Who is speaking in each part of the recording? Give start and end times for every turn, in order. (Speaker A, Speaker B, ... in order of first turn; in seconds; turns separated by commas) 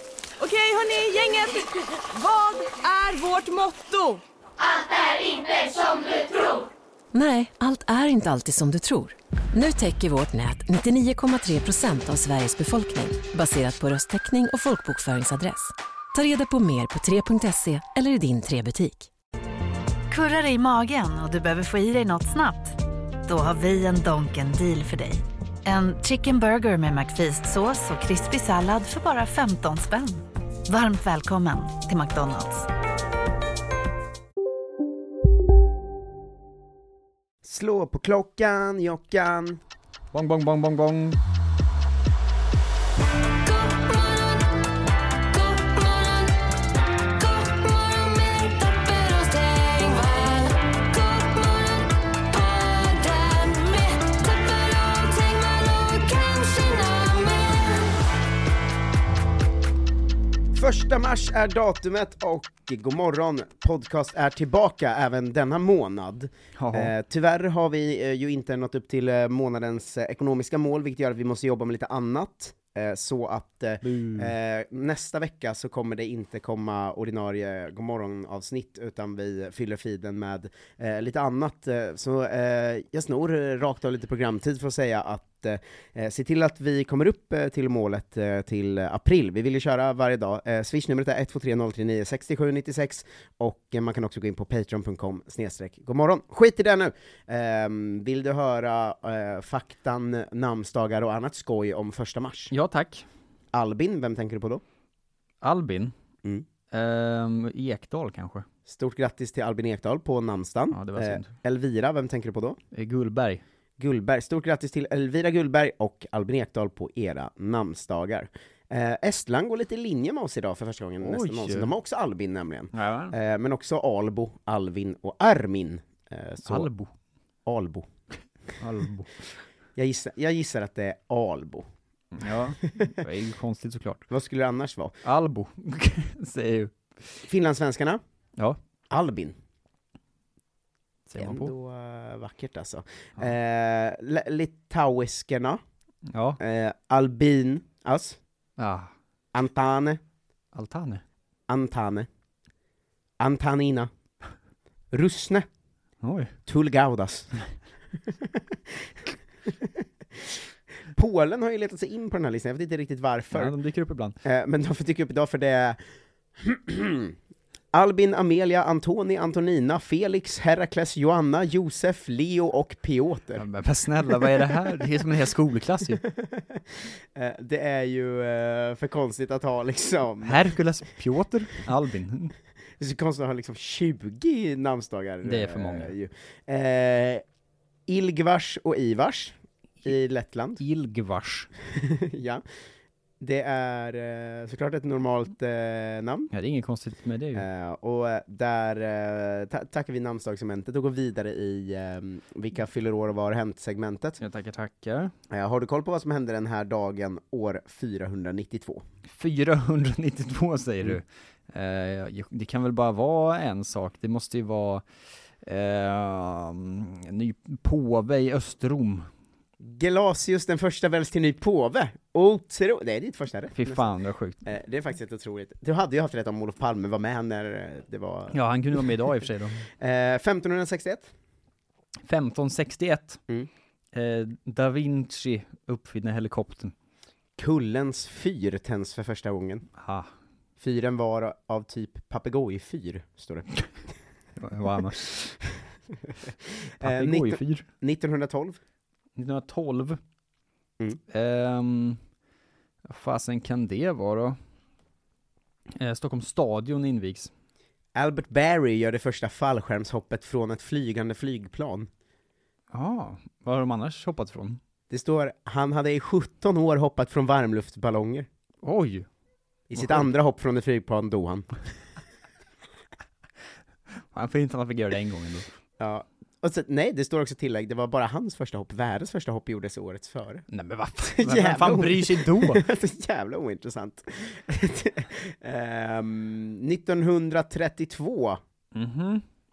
Speaker A: 0.4-4.2, Speaker A: 5.3-6.1, Speaker B: 7.1-19.1, Speaker C: 20.1-32.7, Speaker D: 37.4-39.6, Speaker E: 40.1-41.2, Speaker A: 43.4-44.5, Speaker A: 45.3-46.4, Speaker A: 47.1-58.0, Speaker D: 60.5-102.5, Speaker E: 66.6-66.9, Speaker E: 73.8-74.3, Speaker E: 102.5-103.0, Speaker D: 103.5-104.6, Speaker E: 105.4-105.9, Speaker E: 106.7-108.4, Speaker D: 108.7-112.6, Speaker E: 110.7-111.3, Speaker E: 112.7-113.4, Speaker D: 113.8-126.7, Speaker E: 121.0-121.7, Speaker E: 122.7-123.2, Speaker E: 126.5-126.9, Speaker D: 127.5-127.9, Speaker E: 128.6-129.1, Speaker D: 129.8-131.7, Speaker E: 132.1-134.0, Speaker D: 132.7-132.9, Speaker D: 134.1-134.9, Speaker E: 135.0-137.2, Speaker D: 137.2-138.0, Speaker D: 138.9-139.3, Speaker E: 141.1-141.5, Speaker D: 141.2-145.6, Speaker E: 146.1-146.4, Speaker D: 146.4-148.2, Speaker E: 148.6-148.9, Speaker D: 149.3-150.0, Speaker E: 150.5-151.0, Speaker D: 151.5-152.1, Speaker D: 153.2-153.9, Speaker D: 154.9-155.4, Speaker E: 156.0-156.3, Speaker D: 156.5-157.3, Speaker D: 158.1-158.9, Speaker D: 159.5-160.4, Speaker D: 160.9-163.5, Speaker E: 163.3-164.2, Speaker D: 164.2-165.8, Speaker D: 166.4-167.1, Speaker D: 167.7-173.4, Speaker E: 173.4-176.0, Speaker D: 176.0-180.4, Speaker E: 180.2-182.3, Speaker D: 182.8-187.2, Speaker E: 185.2-185.9, Speaker D: 187.9-190.6, Speaker E: 190.6-191.5, Speaker D: 191.7-192.4, Speaker D: 193.2-196.3, Speaker E: 196.3-197.4, Speaker D: 197.3-204.2, Speaker E: 204.2-205.1, Speaker D: 205.3-208.8, Speaker E: 209.1-214.8, Speaker E: 215.4-219.1, Speaker D: 219.6-223.8, Speaker E: 223.5-224.4, Speaker D: 224.4-228.8, Speaker E: 228.3-229.7, Speaker D: 229.8-231.1, Speaker E: 232.1-233.2, Speaker E: 233.9-236.7, Speaker D: 237.4-239.7, Speaker E: 239.8-240.1, Speaker D: 240.6-243.5, Speaker E: 244.4-245.3, Speaker D: 246.8-248.6, Speaker E: 246.8-247.6, Speaker E: 249.2-250.0, Speaker E: 251.1-252.0, Speaker E: 252.8-254.4, Speaker E: 255.8-257.3, Speaker D: 257.9-261.9, Speaker E: 262.7-264.6, Speaker D: 264.9-268.3, Speaker E: 268.6-269.1, Speaker D: 269.7-271.5, Speaker E: 269.7-270.1, Speaker E: 274.1-275.5, Speaker D: 275.8-280.4, Speaker E: 280.5-282.6, Speaker D: 281.1-288.4, Speaker E: 288.7-289.2